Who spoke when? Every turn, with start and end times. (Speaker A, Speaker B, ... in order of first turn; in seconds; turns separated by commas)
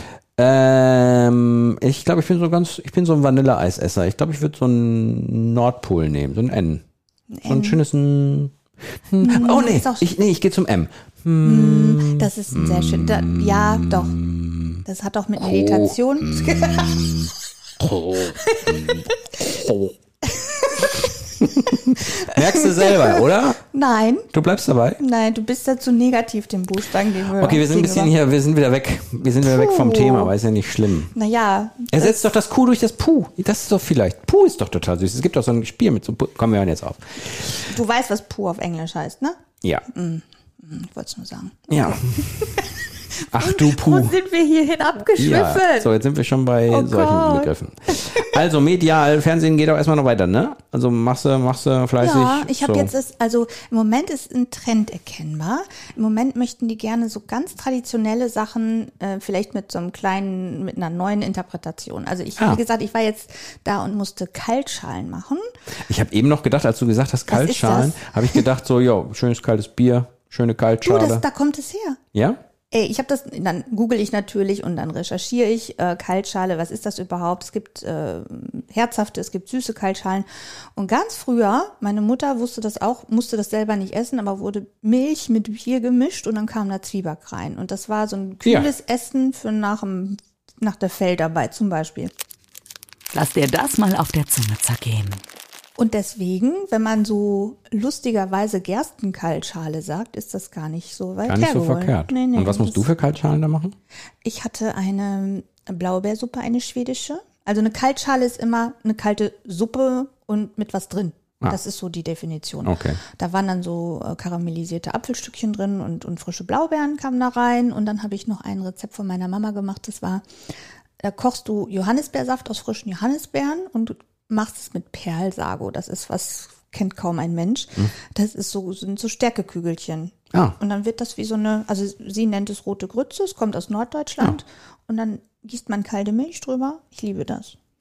Speaker A: 0.4-6.8, Speaker B: 7.3-7.8, Speaker A: 7.5-8.5, Speaker A: 9.1-14.8, Speaker B: 9.2-10.1, Speaker B: 11.4-14.2, Speaker B: 14.8-17.2, Speaker A: 15.4-19.9, Speaker B: 18.2-19.6, Speaker B: 20.2-24.3, Speaker A: 21.4-23.6, Speaker A: 24.3-25.0, Speaker B: 25.0-28.1, Speaker A: 27.2-31.1, Speaker B: 29.4-30.3, Speaker B: 31.1-32.3, Speaker A: 31.9-37.6, Speaker B: 37.6-45.9, Speaker A: 41.7-42.6, Speaker A: 43.3-44.2, Speaker A: 45.1-52.9, Speaker B: 46.7-48.3, Speaker B: 52.0-65.4, Speaker A: 62.4-62.6, Speaker A: 65.9-71.2, Speaker B: 67.3-68.4, Speaker B: 70.8-72.0, Speaker A: 72.1-72.4, Speaker B: 72.7-92.1, Speaker A: 88.4-88.7, Speaker C: 93.1-95.2, Speaker B: 95.8-102.9, Speaker A: 101.3-103.8, Speaker B: 104.2-120.2, Speaker A: 112.6-113.0, Speaker B: 121.0-137.6